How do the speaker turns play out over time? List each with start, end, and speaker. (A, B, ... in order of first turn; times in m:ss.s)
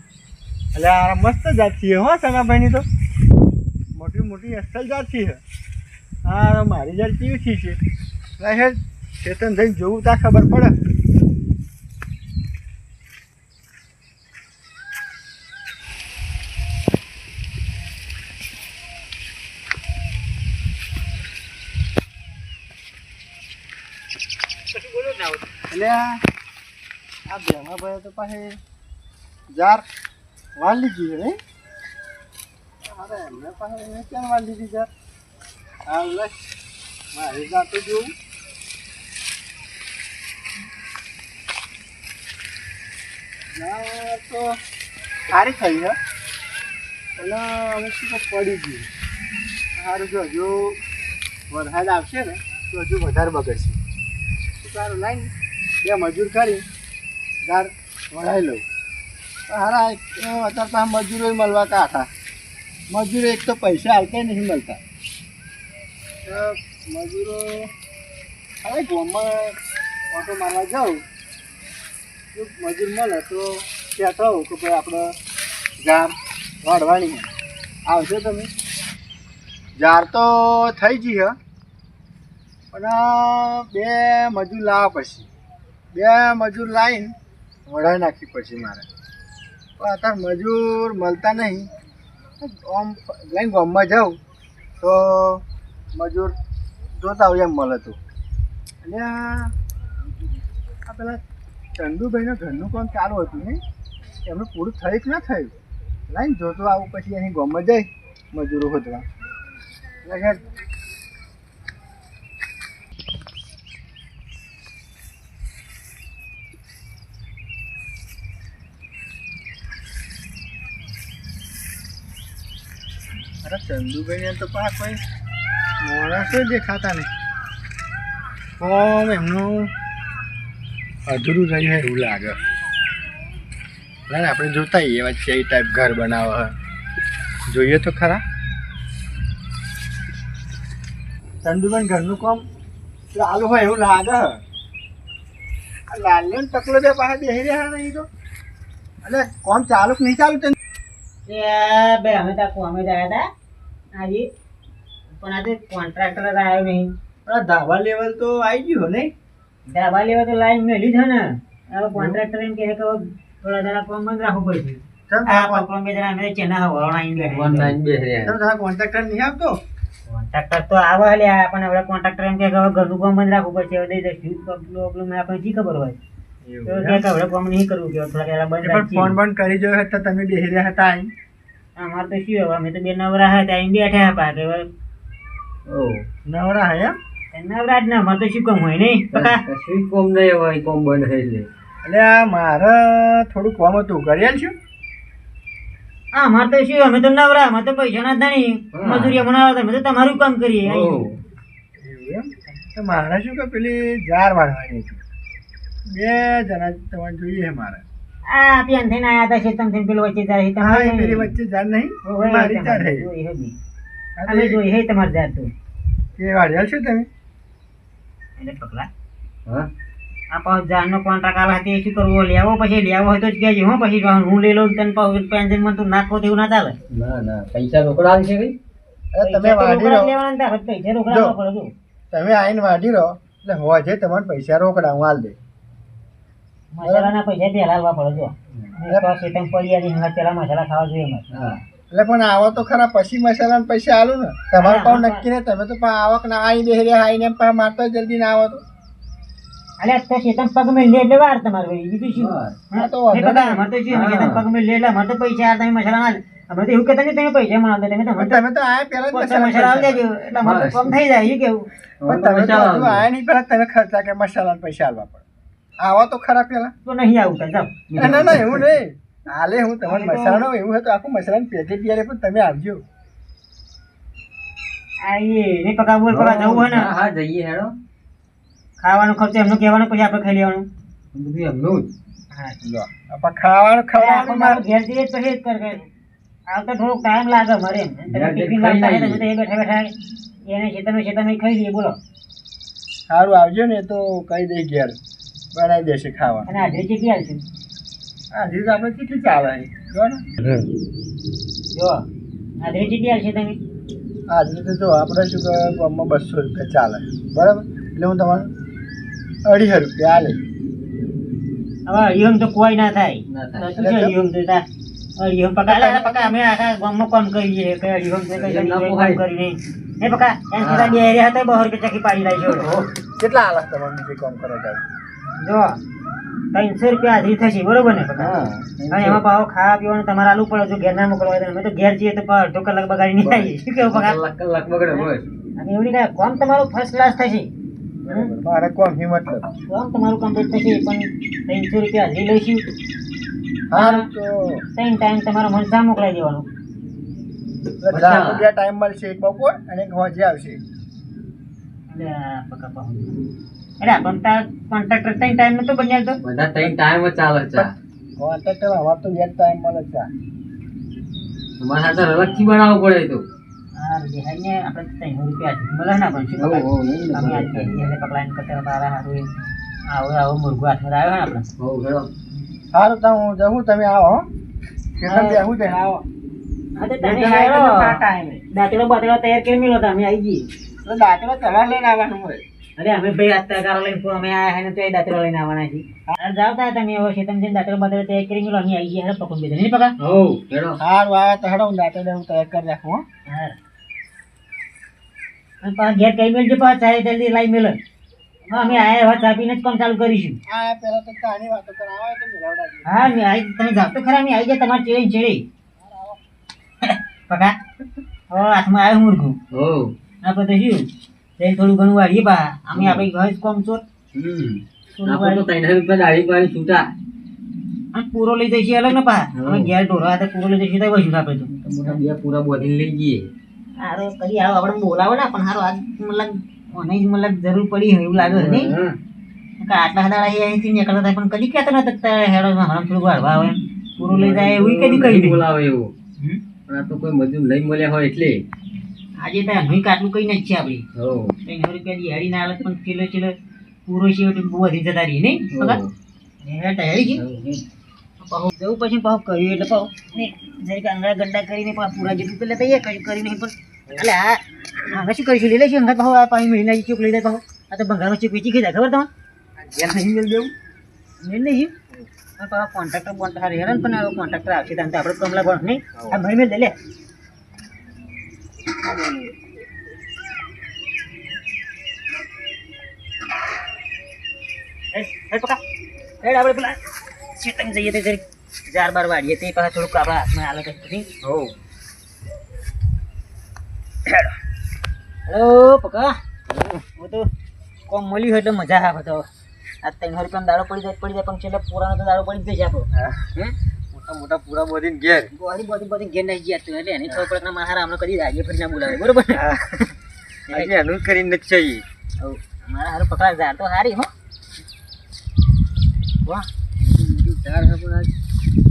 0:00.8-0:02.9 A
0:03.9-0:05.4 A
0:06.2-0:07.8 A
0:08.4-0:10.8 A
0:24.7-0:25.4 B
0:25.7-0:26.2 A
0:27.3-0:28.6 A
0:29.5-0:29.8 A
0:30.6-0:31.4 A
0:32.8-0:34.9 A
0:35.9-0:36.4 A
0:37.1-0:38.2 A
0:43.6-0:44.6 A
0:45.3-0:46.0 A
0:47.2-0:48.9 A
0:49.8-0:50.8 A
0:51.5-0:53.8 A
0:54.6-0:55.3 A
0:55.8-0:56.7 A
0:57.4-0:58.6 A
0:59.5-1:02.1 A
1:02.9-1:04.8 A
1:06.2-1:07.7 A
1:08.6-1:09.6 A
1:10.1-1:11.0 A
1:12.3-1:15.1 A
1:15.8-1:17.3 A
1:17.9-1:18.5 A
1:19.8-1:21.4 A
1:22.7-1:25.3 A
1:25.9-1:27.1 A
1:27.7-1:28.9 A
1:29.8-1:31.7 A
1:32.4-1:34.2 A
1:34.8-1:36.4 A
1:37.0-1:38.0 A
1:38.8-1:39.5 A
1:40.8-1:41.2 A
1:41.8-1:43.6 A
1:44.2-1:45.5 A
1:46.1-1:49.1 A
1:50.0-1:50.5 A
2:03.4-2:05.0 A
2:05.8-2:07.1 A
2:08.6-2:09.7 A
2:11.1-2:12.4 A
2:14.1-2:16.5 A
2:17.5-2:18.2 A
2:21.4-2:22.4 A
2:23.1-2:24.4 A
2:25.9-2:28.1 A
2:29.0-2:30.6 A
2:31.3-2:33.3 B
2:33.9-2:34.3 B
2:35.1-2:37.0 B
2:37.3-2:39.1 A
2:39.7-2:47.7 B
2:45.1-2:45.7 A
2:47.2-2:48.4 C
2:48.2-2:49.6 A
2:50.1-2:56.0 B
2:56.4-2:57.0 A
2:56.7-2:59.2 B
2:58.6-3:01.1 A
3:01.8-3:04.7 B
3:05.7-3:06.1 C
3:06.3-3:07.0 A
3:07.3-3:09.4 B
3:09.1-3:11.5 C
3:11.8-3:14.6 A
3:16.1-3:21.0 B
3:18.7-3:19.2 C
3:20.6-3:21.2 C
3:21.8-3:25.0 A
3:25.9-3:27.8 A
3:28.3-3:31.3 B
3:30.6-3:33.1 A
3:32.0-3:33.6 B
3:34.2-3:34.6 A
3:34.3-3:35.5 B
3:36.2-3:37.1 A
3:38.4-3:38.9 B
3:40.3-3:46.8 B
3:46.9-3:48.6 C
3:49.1-3:50.2 A
3:49.2-3:51.7 B
3:51.1-3:51.4 A
3:52.1-3:55.4 A
3:56.7-4:01.3 B
3:56.8-3:57.1 A
4:01.3-4:01.6 C
4:01.9-4:08.6 A
4:04.6-4:05.2 B
4:09.8-4:18.4 B
4:12.2-4:12.6 C
4:12.7-4:13.6 A
4:13.9-4:14.4 C
4:18.2-4:20.0 A
4:19.1-4:21.7 B
4:20.4-4:21.0 C
4:22.0-4:23.0 C
4:22.0-4:25.2 A
4:25.8-4:26.7 A
4:26.9-4:27.8 B
4:27.9-4:28.7 C
4:28.0-4:32.8 A
4:29.9-4:30.4 B
4:35.0-4:36.9 B
4:36.1-4:37.7 C
4:38.8-4:40.7 B
4:41.1-4:41.9 C
4:42.3-4:42.6 B
4:42.6-4:44.6 A
4:44.0-4:45.9 B
4:46.5-4:49.9 B
4:48.1-4:49.2 C
4:50.5-4:52.0 B
4:53.1-4:55.0 A
4:55.5-4:56.5 A
4:56.5-4:57.4 B
4:58.3-5:00.3 A
5:00.4-5:00.7 C
5:01.7-5:02.0 B
5:02.6-5:03.6 B
5:04.3-5:08.5 A
5:09.4-5:10.4 A
5:11.9-5:14.7 B
5:13.3-5:13.7 C
5:13.8-5:14.2 A
5:15.2-5:22.7 B
5:15.7-5:16.4 A
5:18.4-5:19.2 C
5:20.6-5:21.0 C
5:22.5-5:22.9 C
5:23.2-5:24.8 A
5:25.4-5:25.8 B
5:26.5-5:34.2 B
5:28.2-5:29.2 C
5:33.2-5:35.3 C
5:34.9-5:37.5 B
5:38.0-5:39.5 A
5:39.7-5:42.7 B
5:43.7-5:44.6 A
5:43.7-5:44.1 B
5:44.8-5:46.5 B
5:47.8-5:50.6 A
5:47.9-5:48.4 C
5:51.9-5:53.2 B
5:53.8-5:56.2 B
5:56.2-5:57.7 C
5:57.6-6:00.1 A
6:01.6-6:03.2 C
6:02.2-6:02.5 B
6:03.8-6:09.3 B
6:06.4-6:07.8 C
6:09.9-6:11.5 B
6:11.6-6:12.1 C
6:12.7-6:14.3 A
6:15.0-6:16.0 A
6:15.1-6:15.4 B
6:16.8-6:18.0 B
6:17.0-6:18.4 A
6:18.5-6:20.5 B
6:20.8-6:22.4 A
6:22.8-6:30.0 B
6:30.0-6:30.8 C
6:30.8-6:33.0 A
6:33.3-6:33.6 B
6:35.6-6:37.8 B
6:38.5-6:39.0 A
6:38.5-6:40.4 B
6:40.5-6:43.1 A
6:42.9-6:45.4 B
6:45.8-6:46.2 A
6:46.8-6:47.6 B
6:48.3-6:49.4 B
6:49.5-6:49.9 C
6:50.2-6:53.8 B
6:52.8-6:53.1 C
6:54.1-6:56.9 C
6:55.0-6:55.5 B
6:57.9-7:02.0 B
6:59.4-6:59.7 C
7:01.5-7:03.3 C
7:03.8-7:08.7 B
7:08.2-7:09.0 C
7:09.6-7:15.4 B
7:14.0-7:15.9 C
7:16.7-7:18.4 C
7:19.2-7:20.8 B
7:21.0-7:21.4 C
7:21.4-7:23.4 B
7:23.9-7:25.8 B
7:25.5-7:25.9 C
7:26.4-7:27.2 B
7:27.2-7:27.6 C
7:28.2-7:39.1 B
7:39.6-7:40.5 C
7:41.2-7:41.8 B
7:42.4-7:46.8 B
7:54.9-7:55.6 B
7:56.2-8:01.1 B
8:01.2-8:01.5 C
8:05.3-8:06.2 B
8:06.5-8:06.8 C
8:07.0-8:07.3 B
8:07.9-8:09.3 B
8:09.8-8:13.6 B
8:12.9-8:13.3 C
8:13.9-8:15.3 C
8:15.3-8:19.5 B
8:19.4-8:19.8 C
8:20.5-8:21.8 C
8:22.2-8:24.1 B
8:26.8-8:28.1 C